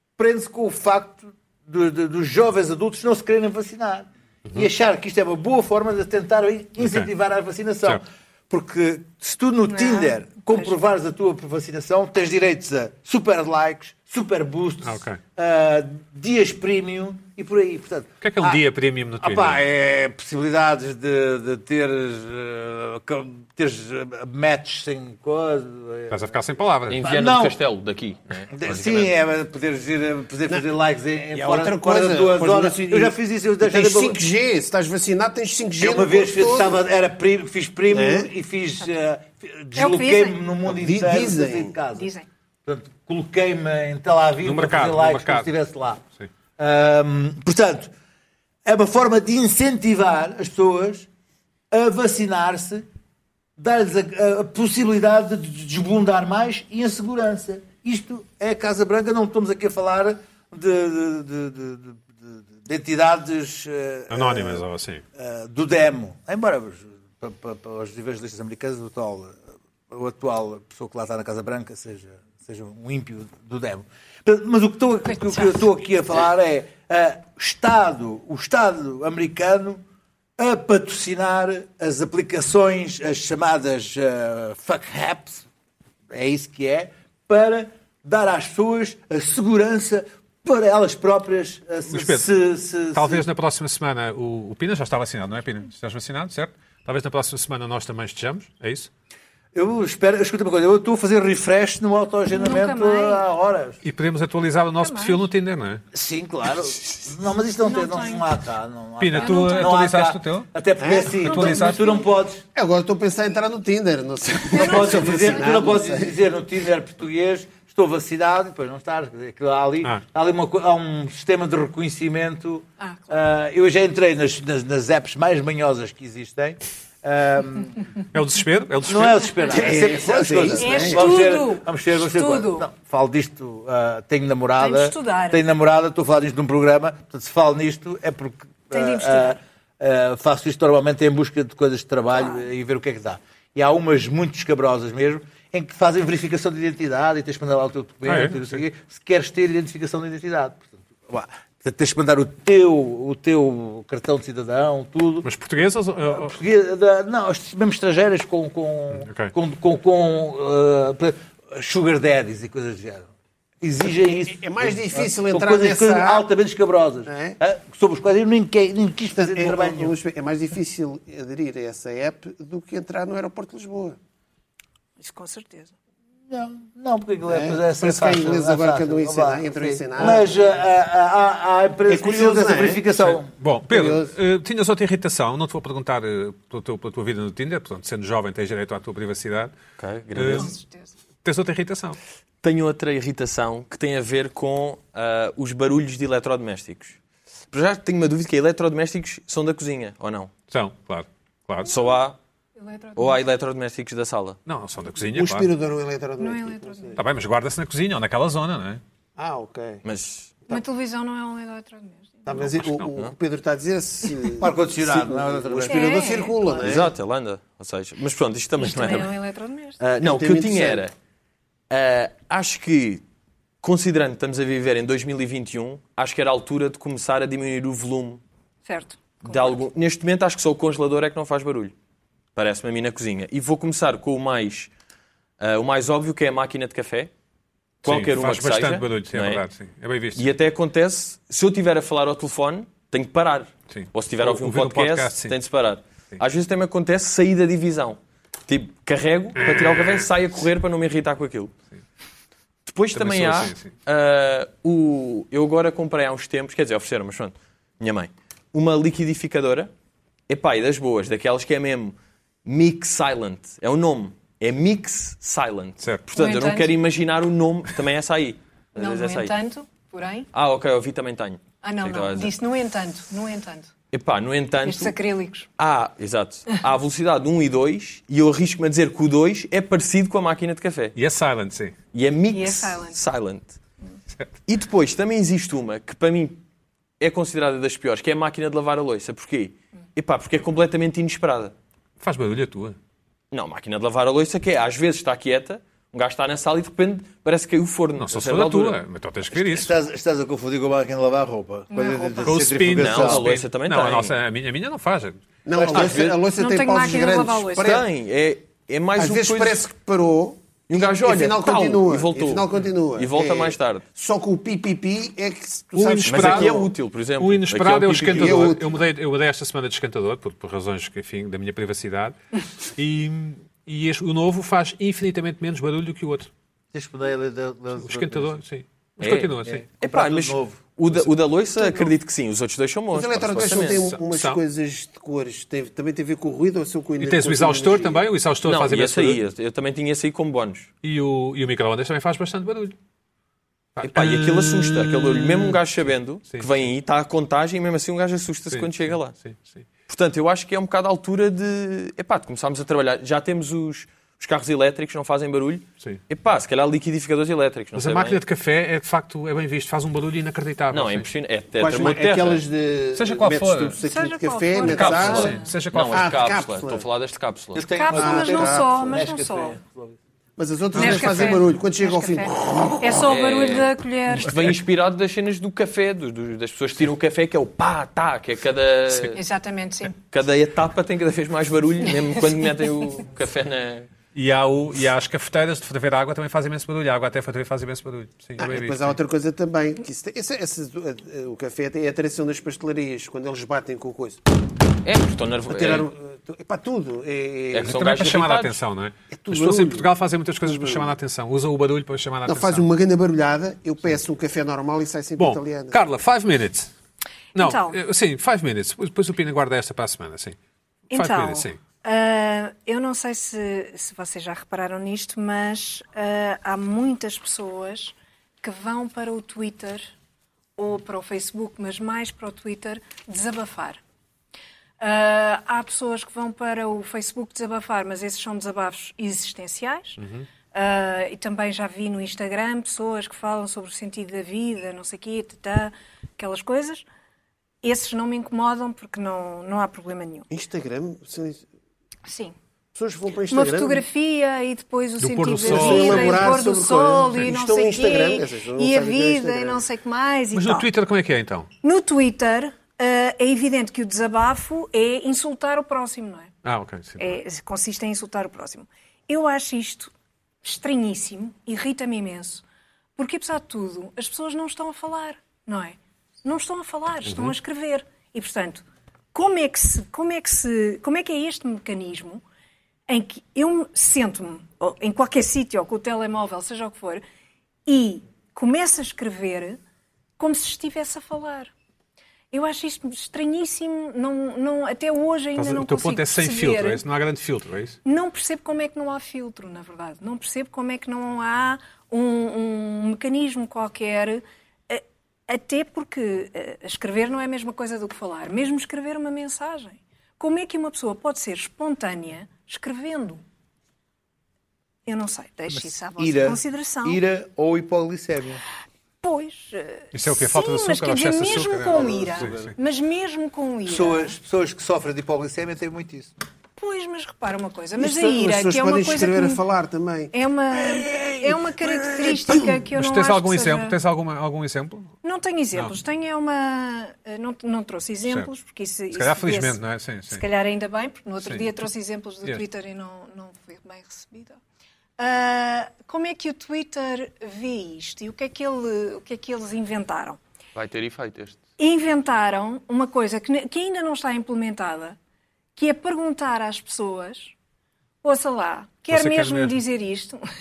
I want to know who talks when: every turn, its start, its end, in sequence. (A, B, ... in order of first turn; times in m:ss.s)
0:00.2-0:18.6 A
0:06.8-0:07.1 B
0:09.7-0:10.8 C
0:14.8-0:15.2 B
0:18.2-0:19.6 B
0:19.2-0:26.3 A
0:26.1-0:27.0 B
0:26.9-0:29.1 D
0:27.0-0:27.6 A
0:28.5-0:34.2 A
0:31.3-0:36.8 E
0:35.8-0:42.1 A
0:37.9-0:38.3 E
0:39.8-0:40.4 C
0:40.6-0:41.7 E
0:41.9-0:42.3 C
0:42.6-0:46.0 A
0:44.4-0:45.5 B
0:46.6-0:47.9 A
0:48.6-0:51.1 A
0:51.7-0:52.9 A
0:53.6-1:04.6 A
1:04.1-1:05.0 B
1:05.1-1:19.8 A
1:15.0-1:15.6 C
1:20.4-1:25.5 A
1:26.1-1:33.2 A
1:31.9-1:32.3 B
1:32.9-1:38.9 B
1:39.5-1:43.8 A
1:42.3-1:43.2 C
1:43.8-1:45.8 B
1:44.8-1:45.2 C
1:45.9-1:52.4 A
1:47.6-1:48.2 C
1:49.0-1:50.5 B
1:49.1-1:49.7 C
1:50.8-1:51.2 E
1:51.2-1:51.8 B
1:51.2-1:52.1 C
1:52.5-1:56.1 E
1:54.5-2:07.8 A
1:54.5-1:55.1 C
2:02.8-2:03.2 C
2:08.1-2:09.3 B
2:08.8-2:35.3 A
2:09.5-2:11.1 E
2:10.6-2:12.7 C
2:14.6-2:15.4 C
2:18.7-2:19.4 C
2:22.1-2:22.4 C
2:28.0-2:28.6 B
2:35.2-2:36.4 B
2:36.1-2:43.1 A
2:38.9-2:39.3 B
2:43.6-2:49.9 A
2:44.0-2:46.2 E
2:47.0-2:47.4 E
2:49.1-2:54.0 E
2:55.0-2:55.7 C
2:56.3-3:03.3 A
2:57.2-3:00.5 E
3:01.9-3:02.8 E
3:03.0-3:09.5 B
3:03.7-3:04.1 E
3:09.8-3:10.5 D
3:10.1-3:10.5 B
3:10.3-3:10.9 C
3:11.2-3:12.0 B
3:12.4-3:17.0 D
3:17.5-3:20.3 D
3:20.5-3:21.7 B
3:21.6-3:22.2 D
3:21.7-3:21.9 C
3:22.6-3:23.2 C
3:23.0-3:24.4 D
3:24.5-3:25.5 B
3:25.1-3:27.0 E
3:26.2-3:27.0 C
3:27.0-3:28.8 B
3:29.2-3:29.8 E
3:29.8-3:30.3 D
3:30.5-3:32.3 C
3:32.2-3:36.9 E
3:32.3-3:32.9 B
3:34.4-3:36.1 A
3:35.7-3:36.9 C
3:36.6-3:39.2 D
3:38.6-3:39.8 C
3:39.8-3:40.9 D
3:40.0-3:40.8 E
3:41.7-3:43.0 D
3:43.6-3:48.2 D
3:48.6-3:49.6 C
3:49.2-3:51.7 D
3:52.4-3:54.7 D
3:55.4-3:57.1 D
3:57.8-3:59.4 D
3:57.8-4:00.2 B
4:00.2-4:11.5 D
4:03.7-4:05.4 B
4:09.4-4:10.1 B
4:12.6-4:19.7 D
4:12.9-4:13.7 B
4:20.3-4:29.4 D
4:25.8-4:26.1 B
4:26.2-4:26.8 C
4:28.8-4:30.3 C
4:30.3-4:32.3 D
4:31.6-4:33.7 C
4:33.9-4:34.9 D
4:34.6-4:35.5 C
4:35.6-4:40.9 D
4:40.9-4:41.8 B
4:41.9-4:43.6 D
4:42.3-4:43.0 C
4:44.5-4:46.4 D
4:47.0-4:51.5 D
4:52.0-4:52.8 B
4:53.3-4:58.8 D
4:58.0-4:59.7 B
4:59.3-5:03.3 A
5:01.7-5:02.4 C
5:02.2-5:05.2 B
5:02.7-5:04.2 D
5:05.4-5:07.8 E
5:05.6-5:06.1 A
5:05.7-5:06.2 D
5:06.4-5:07.8 C
5:07.6-5:09.6 D
5:09.0-5:16.6 E
5:10.7-5:13.8 D
5:15.7-5:16.7 B
5:16.0-5:18.5 D
5:17.2-5:26.3 B
5:18.1-5:18.8 E
5:26.7-5:28.4 A
5:27.8-5:29.6 B
5:29.0-5:33.9 D
5:29.4-5:30.6 A
5:31.6-5:31.9 C
5:32.9-5:38.1 E
5:33.7-5:34.4 B
5:37.0-5:39.2 B
5:38.4-5:40.7 D
5:40.8-5:42.7 B
5:43.8-5:46.7 B
5:43.8-5:49.2 D
5:48.5-5:49.7 B
5:49.9-5:58.2 D
5:57.7-6:01.1 B
6:00.7-6:02.4 D
6:01.6-6:06.9 E
6:02.9-6:03.8 B
6:03.8-6:05.4 C
6:04.6-6:06.1 B
6:05.0-6:07.6 D
6:07.5-6:10.0 A
6:07.7-6:09.6 C
6:07.9-6:08.9 E
6:10.4-6:13.0 E
6:10.7-6:11.4 B
6:10.7-6:14.3 C
6:13.0-6:19.2 D
6:14.2-6:14.6 B
6:19.1-6:20.0 C
6:20.1-6:23.9 D
6:24.1-6:29.0 B
6:28.4-6:34.2 E
6:34.8-6:35.9 D
6:35.5-6:37.7 E
6:37.5-6:38.6 D
6:37.6-6:42.7 B
6:39.1-6:39.9 E
6:40.4-6:40.9 E
6:42.2-6:45.8 E
6:45.2-6:46.7 B
6:47.3-6:50.4 B
6:47.4-6:47.8 C
6:50.9-6:59.9 C
6:50.9-6:51.6 B
7:00.6-7:03.8 C
7:04.8-7:10.0 C
7:10.0-7:10.3 B
7:10.5-7:16.8 C
7:17.6-7:20.3 C
7:20.3-7:21.4 E
7:22.1-7:22.3 C
7:22.7-7:23.8 E
7:23.3-7:30.7 C
7:25.0-7:26.4 B
7:25.4-7:29.6 E
7:30.3-7:31.5 B
7:31.6-7:36.3 C
7:36.4-7:37.2 B
7:37.0-7:39.9 C
7:40.4-7:42.4 C
7:43.0-7:52.2 C
7:47.0-7:47.3 B
7:52.9-7:57.0 C
7:57.6-7:59.6 C
8:00.2-8:01.5 C
8:02.3-8:06.8 C
8:05.4-8:07.8 B
8:07.8-8:23.2 C
8:24.8-8:27.0 C
8:25.5-8:28.4 A
8:29.0-8:34.1 C
8:29.9-8:32.5 B
8:31.5-8:32.5 A
8:33.6-8:36.1 A
8:36.6-8:39.4 C
8:37.8-8:42.5 E
8:40.1-8:43.8 C
8:42.7-8:44.9 B
8:45.0-8:54.4 C
8:48.9-8:50.2 B
8:51.2-8:51.6 B
8:55.0-9:00.2 C
9:00.5-9:01.4 D
9:01.6-9:05.0 C
9:05.6-9:07.3 C
9:08.0-9:10.2 C
9:08.9-9:09.6 B